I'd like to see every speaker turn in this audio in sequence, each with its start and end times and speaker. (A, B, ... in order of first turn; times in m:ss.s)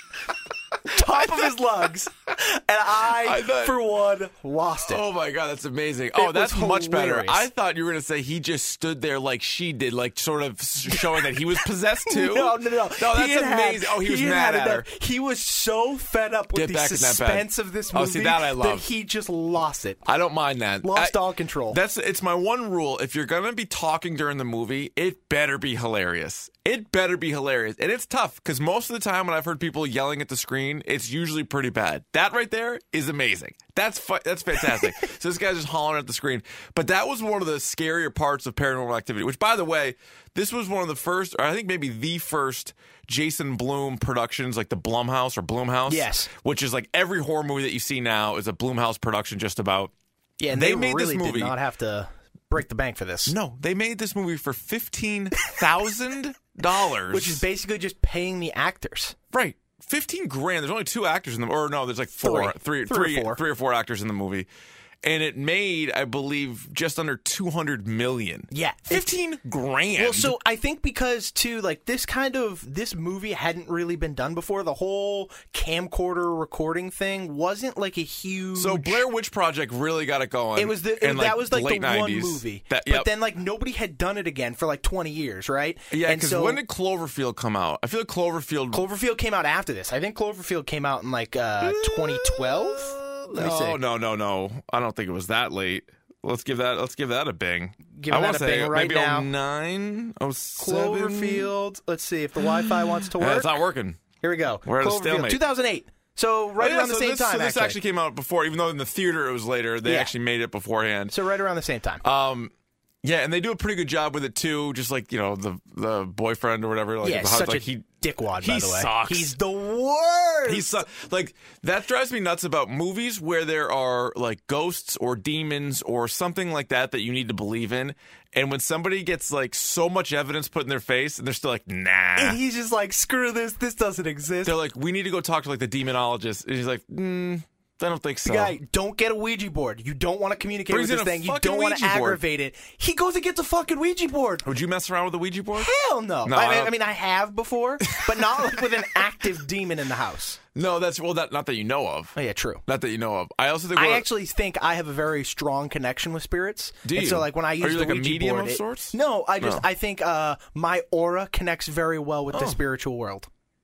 0:00.9-0:05.0 A
0:00.9-0:01.5 B
0:03.0-0:03.8 B
0:04.9-0:14.8 B
0:06.2-0:07.4 A
0:10.9-0:11.3 A
0:12.1-0:20.0 A
0:16.5-0:18.8 B
0:20.0-0:21.2 B
0:20.8-0:21.8 A
0:21.7-0:49.9 B
0:45.9-0:46.3 A
0:50.4-0:53.3 A
0:50.5-0:51.5 B
0:53.3-0:57.4 B
0:57.1-0:59.2 A
0:59.3-1:04.5 B
1:02.2-1:03.4 A
1:05.0-1:10.4 B
1:08.5-1:09.1 A
1:10.0-1:19.0 A
1:18.5-1:23.1 B
1:20.6-1:26.6 A
1:25.9-1:28.8 B
1:28.7-1:33.8 A
1:31.6-1:41.5 B
1:37.9-1:39.3 A
1:40.6-1:43.5 A
1:42.5-1:44.0 B
1:44.2-1:47.8 A
1:44.6-1:45.4 B
1:46.6-1:51.1 B
1:49.8-1:50.1 A
1:51.1-1:52.0 A
1:52.0-1:52.5 B
1:53.0-1:57.8 B
1:57.0-2:00.8 A
1:58.4-1:59.3 B
2:00.5-2:12.4 B
2:12.2-2:14.6 A
2:14.4-2:18.5 B
2:18.2-2:24.4 A
2:20.7-2:22.2 B
2:24.4-2:25.7 B
2:25.6-2:30.4 A
2:26.2-2:26.7 B
2:27.9-2:28.6 B
2:30.5-2:32.2 B
2:32.2-2:32.6 A
2:32.7-2:34.0 B
2:33.8-2:43.3 A
2:36.8-2:39.6 B
2:42.3-2:42.6 B